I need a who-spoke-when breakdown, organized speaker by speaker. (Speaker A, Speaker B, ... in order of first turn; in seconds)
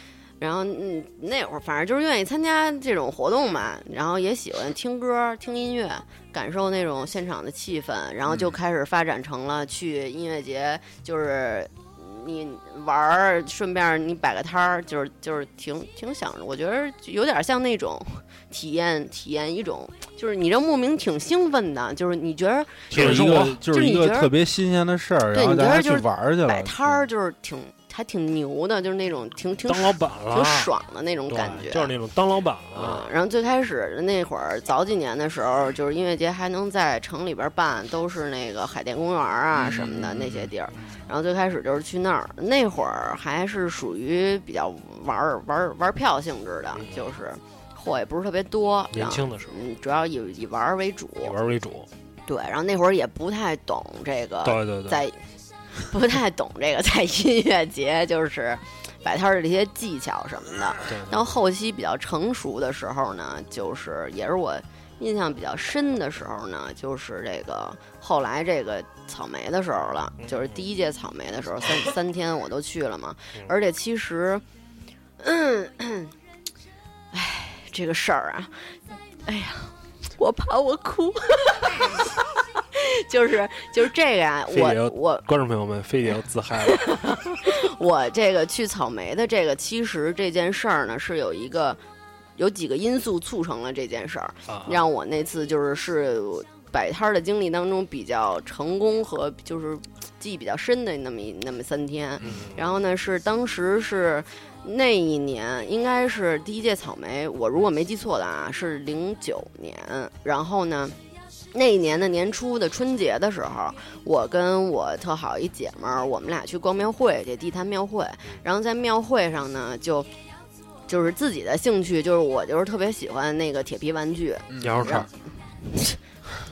Speaker A: 0.4-24.3, 25.3-31.9, 32.7-51.4, 52.3-55.2, 55.9-74.4, 75.2-76.1, 77.1-78.5, 79.3-82.1, 82.7-85.3, 86.7-91.8, 92.4-111.0, 111.5-120.1, 120.9-125.1, 125.7-126.0
Speaker B: 22.9-23.6, 29.7-30.7, 31.3-33.0, 46.8-47.1, 48.9-49.6, 51.2-51.9, 54.4-55.0, 60.9-61.4, 70.2-70.6, 84.5-87.0, 94.5-94.8, 102.2-102.7, 124.6-125.1
Speaker C: 22.9-27.0, 39.6-40.5, 124.5-125.1